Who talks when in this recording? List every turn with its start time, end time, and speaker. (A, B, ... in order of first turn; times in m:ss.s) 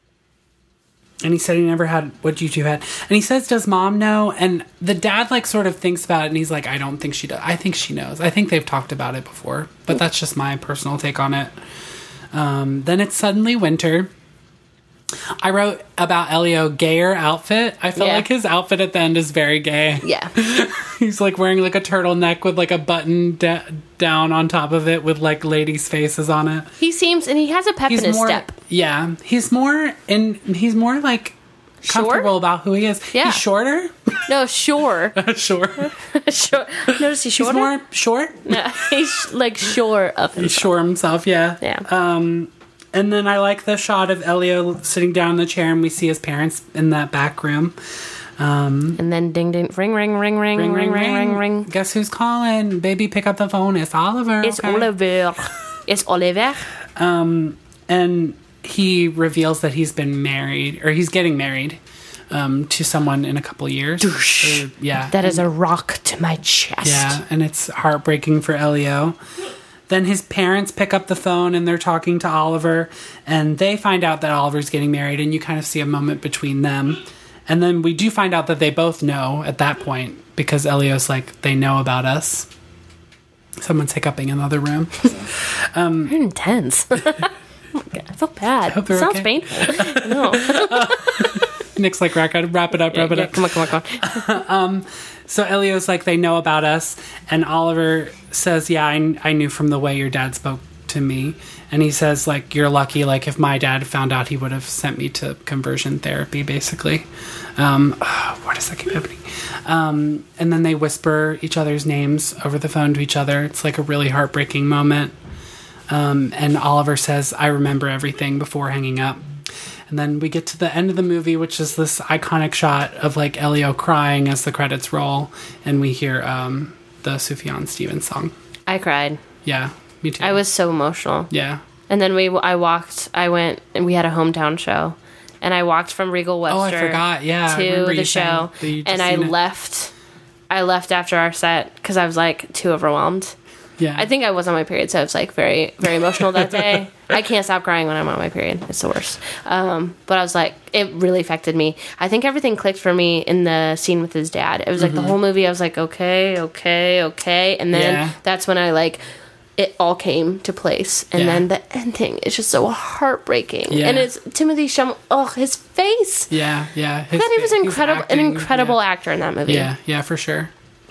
0:01.2-0:11.5 A
0:12.3-0:14.1 A
0:15.4-0:26.7 A
0:18.0-0:18.2 B
0:20.0-0:20.3 B
0:26.8-0:28.5 B
0:27.9-0:31.3 A
0:31.8-0:32.3 B
0:31.9-0:34.1 A
0:33.1-0:33.4 B
0:34.3-0:35.2 B
0:35.1-0:35.9 A
0:35.8-0:37.7 B
0:36.9-0:38.8 A
0:38.5-0:40.7 B
0:40.4-0:47.8 A
0:41.6-0:41.8 B
0:48.4-0:49.0 A
0:49.0-0:51.7 B
0:50.6-0:54.9 A
0:54.4-0:56.6 B
0:57.0-1:01.8 A
1:02.3-1:05.4 A
1:04.0-1:07.2 B
1:06.8-1:09.2 A
1:09.9-1:22.5 A
1:23.6-1:26.1 A
1:26.1-1:31.4 B
1:28.7-1:55.1 A
1:32.9-1:34.4 B
1:55.9-1:59.2 A
1:59.9-2:08.3 A
2:08.7-2:09.2 B
2:09.4-2:10.4 A
2:10.2-2:11.3 B
2:11.3-2:11.6 A
2:11.9-2:19.9 B
2:16.5-2:19.3 A
2:20.5-2:23.3 B
2:23.8-2:24.1 A
2:24.0-2:39.0 B
2:26.4-2:26.7 A
2:34.8-2:35.2 A
2:37.7-2:38.1 A
2:39.6-2:46.3 B
2:41.2-2:41.4 A
2:43.7-2:44.1 A
2:46.3-2:48.8 A
2:47.1-2:49.7 B
2:49.5-2:50.5 A